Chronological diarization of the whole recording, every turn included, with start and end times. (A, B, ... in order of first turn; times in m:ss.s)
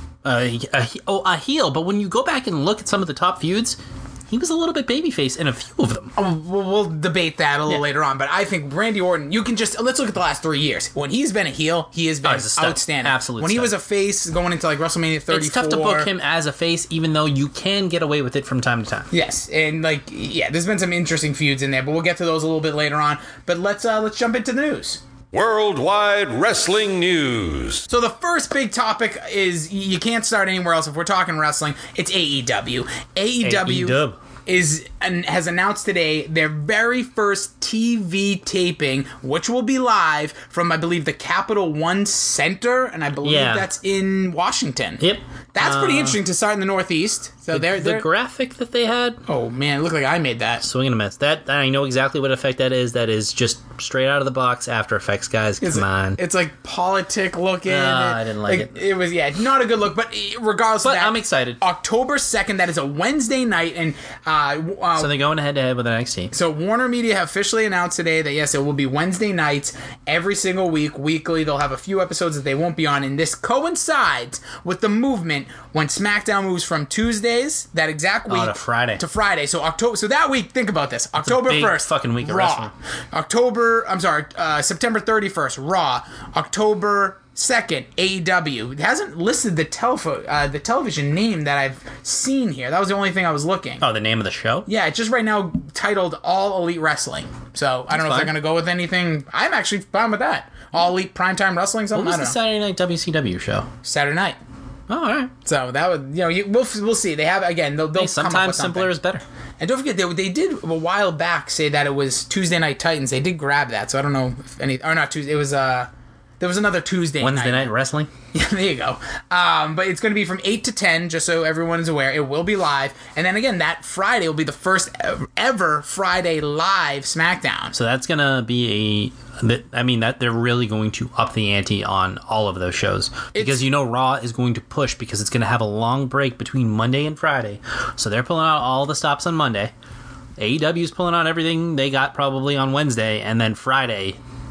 0:00.2-0:06.1 A
0:06.2-0:16.1 B
0:12.2-0:13.7 A
0:15.3-0:19.1 A
0:19.1-0:25.0 B
0:25.3-0:27.9 C
0:27.9-0:45.0 B
0:33.4-0:34.2 A
0:43.2-0:43.7 A
0:45.0-0:46.2 A
0:45.6-0:48.0 B
0:47.5-0:49.2 A
0:49.3-0:50.6 B
0:50.6-0:56.2 A
0:55.6-1:05.1 B
0:57.6-0:58.8 A
1:00.8-1:01.6 A
1:05.0-1:06.3 A
1:06.3-1:33.8 B
1:18.3-1:19.0 A
1:21.2-1:22.7 A
1:33.8-1:34.7 A
1:34.7-1:42.4 B
1:37.9-1:38.3 A
1:41.9-1:43.7 A
1:43.8-1:44.4 B
1:44.9-1:45.3 A
1:45.4-1:48.9 B
1:48.0-1:49.2 A
1:49.6-1:57.7 B
1:57.2-1:58.1 A
1:58.3-2:07.7 B
2:07.7-2:19.7 A
2:13.3-2:13.6 B
2:20.4-2:24.2 A